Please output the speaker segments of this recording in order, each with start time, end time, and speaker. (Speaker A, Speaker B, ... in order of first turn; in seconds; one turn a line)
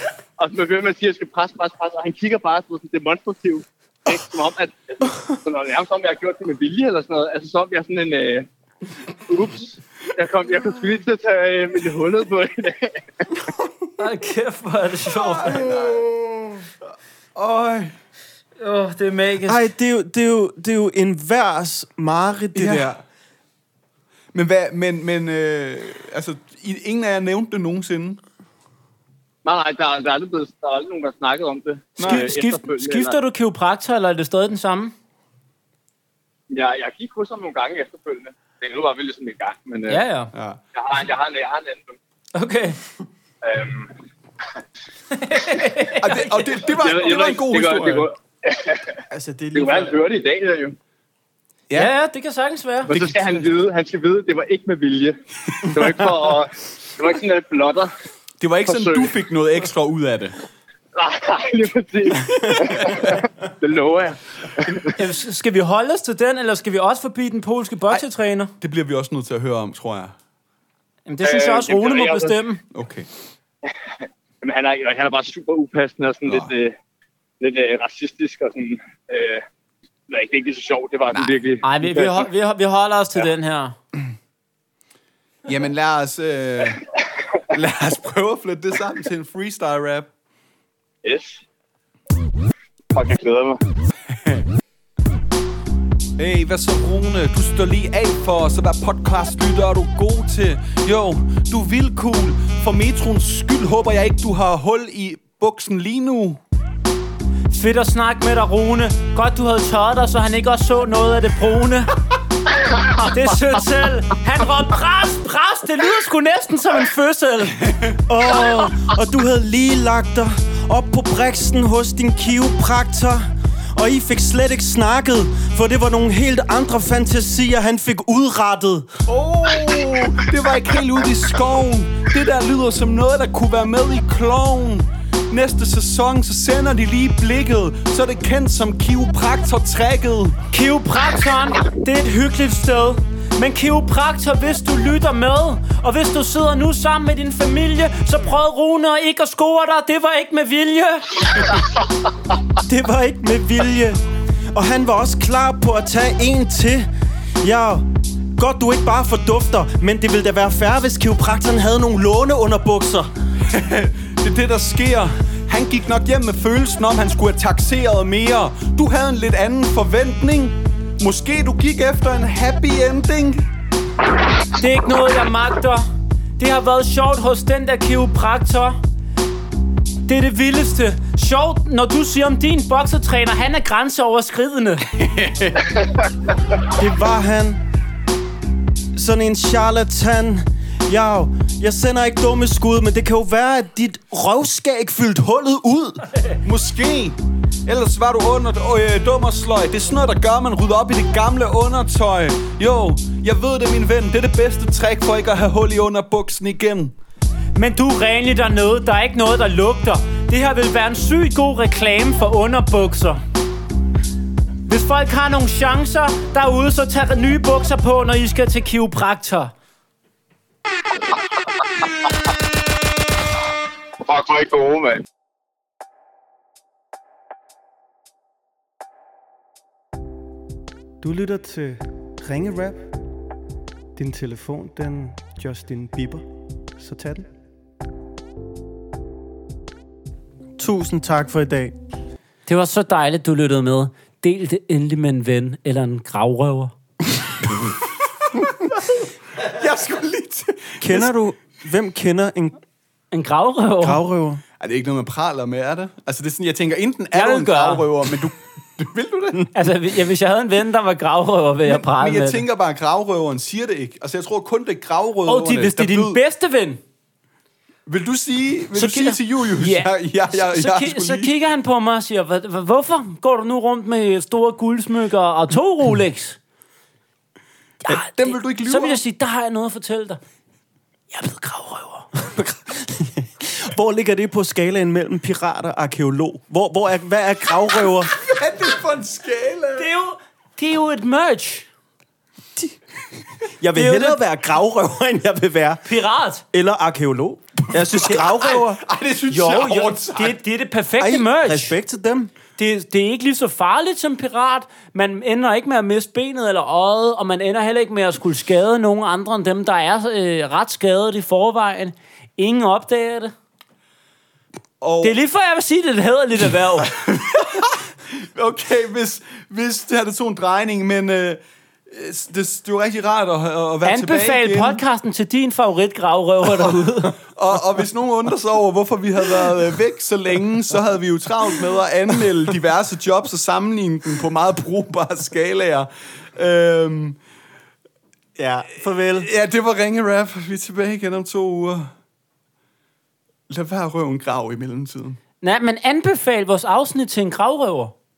Speaker A: 0.4-8.5
Speaker A: 9.3-13.3
Speaker B: 14.0-15.7
Speaker C: 15.1-16.1
Speaker D: 16.0-16.6
Speaker C: 17.3-17.9
Speaker B: 18.6-19.7
Speaker D: 19.4-23.0
Speaker C: 22.5-22.9
Speaker C: 24.3-28.2
Speaker A: 29.4-33.2
Speaker C: 32.0-32.3
Speaker B: 32.0-34.9
Speaker A: 36.5-40.0
Speaker B: 39.9-40.3
Speaker C: 40.3-40.6
Speaker A: 40.7-42.0
Speaker B: 42.3-42.8
Speaker A: 43.4-43.9
Speaker B: 45.1-46.5
Speaker C: 46.0-48.1
Speaker A: 46.8-49.0
Speaker D: 49.1-50.0
Speaker A: 49.5-50.8
Speaker B: 51.7-53.2
Speaker A: 52.9-57.9
Speaker C: 58.4-60.4
Speaker A: 58.7-59.1
Speaker A: 60.9-64.9
Speaker C: 62.4-63.0
Speaker B: 65.0-68.5
Speaker C: 68.6-70.1
Speaker B: 71.0-72.6
Speaker A: 71.2-72.3
Speaker C: 72.7-73.1
Speaker A: 74.4-76.7
Speaker C: 76.2-76.5
Speaker A: 77.4-79.4
Speaker A: 80.1-82.3
Speaker C: 81.1-81.4
Speaker B: 81.6-83.7
Speaker C: 85.5-86.8
Speaker C: 87.5-90.1
Speaker A: 91.0-91.4
Speaker A: 92.9-93.6
Speaker C: 96.2-106.4
Speaker B: 107.5-111.9
Speaker B: 112.9-117.6
Speaker D: 118.1-128.9
Speaker C: 129.1-140.4
Speaker B: 140.5-151.2
Speaker D: 152.6-154.0
Speaker D: 154.5-156.9
Speaker D: 157.4-157.8
Speaker D: 158.4-163.1
Speaker C: 163.5-173.5
Speaker B: 174.6-175.9
Speaker B: 176.4-178.8
Speaker B: 180.1-184.8
Speaker C: 184.9-185.7
Speaker D: 186.8-187.6
Speaker D: 188.9-196.1
Speaker C: 196.4-206.9
Speaker B: 207.5-213.2
Speaker B: 214.7-219.5
Speaker A: 224.0-225.0
Speaker D: 231.0-232.8
Speaker D: 233.9-236.2
Speaker D: 236.8-237.2
Speaker D: 240.6-241.7
Speaker B: 242.4-246.7
Speaker C: 247.6-248.4
Speaker C: 249.4-251.1
Speaker D: 250.8-252.6
Speaker B: 253.1-254.0
Speaker D: 253.8-254.4
Speaker C: 254.6-259.5
Speaker B: 257.1-257.9
Speaker B: 259.5-262.4
Speaker C: 261.6-266.2
Speaker B: 265.3-266.8
Speaker C: 267.9-271.3
Speaker B: 268.8-276.4
Speaker B: 277.8-280.2
Speaker C: 278.1-279.0
Speaker B: 281.1-282.1
Speaker D: 282.2-288.1
Speaker C: 288.2-289.9
Speaker B: 289.8-291.7
Speaker D: 293.6-295.8
Speaker B: 293.7-294.2
Speaker B: 295.8-296.4
Speaker D: 296.5-298.8
Speaker C: 297.8-300.4
Speaker B: 299.3-301.8
Speaker D: 301.0-302.3
Speaker B: 302.6-313.3
Speaker C: 314.8-315.2
Speaker B: 315.0-316.9
Speaker C: 316.8-324.8
Speaker B: 323.8-327.1
Speaker C: 327.2-337.2
Speaker D: 338.4-339.3
Speaker C: 339.1-341.9
Speaker C: 343.5-345.2
Speaker B: 345.4-347.9